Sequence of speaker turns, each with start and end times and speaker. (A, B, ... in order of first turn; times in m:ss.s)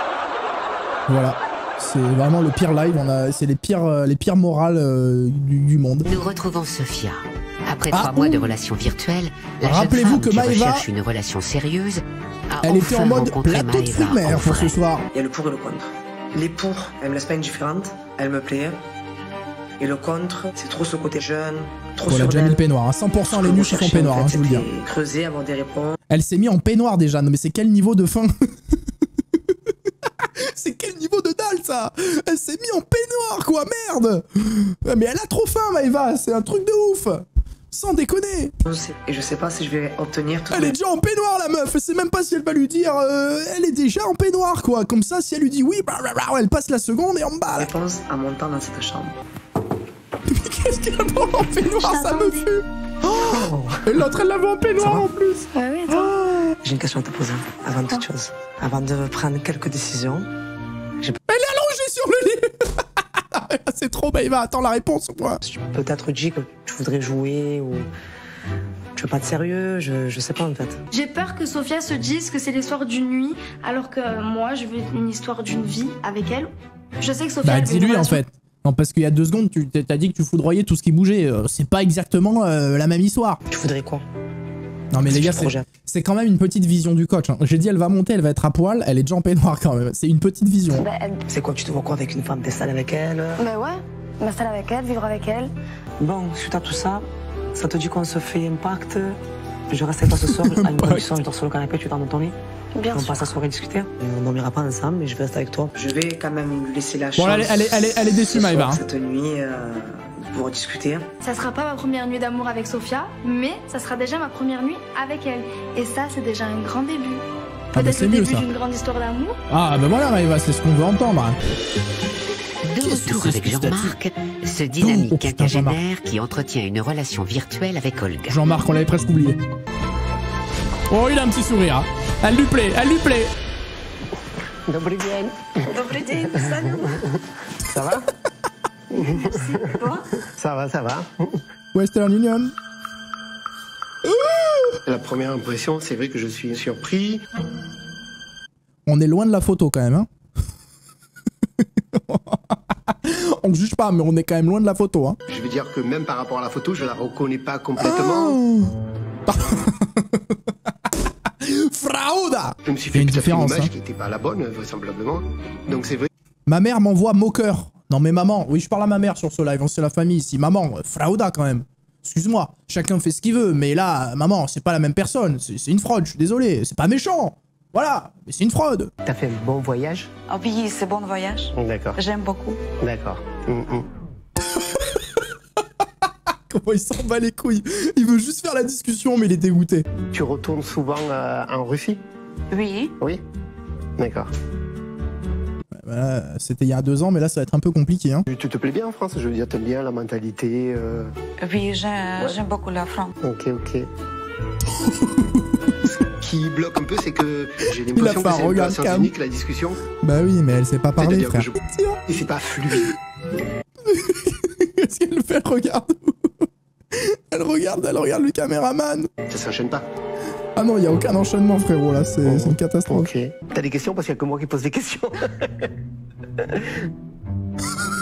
0:01.1-0:06.1 A
0:06.0-0:14.8 B
0:07.9-0:08.5 A
0:09.6-0:10.9 A
0:12.6-0:15.0 A
0:15.1-0:18.8 C
0:19.8-0:22.6 C
0:22.1-0:24.6 A
0:23.2-0:26.0 C
0:26.1-0:28.8 A
0:30.0-0:38.5 A
0:38.6-0:40.8 C
0:40.5-0:47.7 A
0:47.5-0:49.2 C
0:50.3-0:56.6 A
0:51.8-0:52.5 D
0:53.1-0:54.1 C
0:54.8-0:55.1 C
0:55.5-0:56.2 D
0:56.6-1:00.3 C
1:01.3-1:05.4 A
1:05.4-1:07.9 C
1:09.0-1:10.8 C
1:10.9-1:18.2 D
1:17.4-1:23.4 A
1:23.5-1:24.0 C
1:24.9-1:30.9 A
1:25.0-1:25.6 C
1:30.7-1:31.2 D
1:31.3-1:33.4 C
1:33.4-1:35.5 D
1:36.0-1:39.2 C
1:39.7-1:42.3 C
1:40.2-1:41.1 A
1:42.8-1:43.3 D
1:42.9-1:51.1 C
1:47.2-1:48.8 A
1:51.2-1:59.4 D
1:57.8-1:58.4 A
1:59.5-2:01.4 A
2:02.7-2:08.6 B
2:02.8-2:03.9 A
2:04.8-2:05.8 A
2:08.3-2:09.4 A
2:10.9-2:13.3 A
2:14.7-2:15.5 E
2:15.6-2:17.0 D
2:16.4-2:17.1 E
2:17.6-2:18.1 E
2:18.9-2:19.7 E
2:18.9-2:20.1 D
2:20.3-2:21.4 E
2:21.7-2:22.5 A
2:24.1-2:24.8 A
2:24.9-2:27.2 E
2:28.9-2:30.1 A
2:31.6-2:35.2 A
2:35.3-2:38.4 E
2:37.8-2:38.7 A
2:39.3-2:43.7 A
2:42.6-2:46.1 E
2:46.5-2:58.9 A
2:59.0-3:00.1 E
3:00.3-3:02.6 F
3:01.6-3:02.0 E
3:02.8-3:03.9 E
3:04.5-3:05.2 A
3:06.3-3:09.9 A
3:10.1-3:12.0 E
3:12.5-3:12.9 F
3:14.0-3:14.3 E
3:15.7-3:18.3 A
3:18.3-3:21.1 E
3:21.4-3:23.1 F
3:23.2-3:23.9 E
3:24.6-3:25.8 A
3:25.8-3:29.8 E
3:27.9-3:29.1 A
3:30.0-3:32.0 A
3:31.0-3:33.0 E
3:33.8-3:39.1 A
3:39.3-3:39.9 E
3:40.6-3:43.1 A
3:42.3-3:45.7 E
3:46.5-3:46.8 E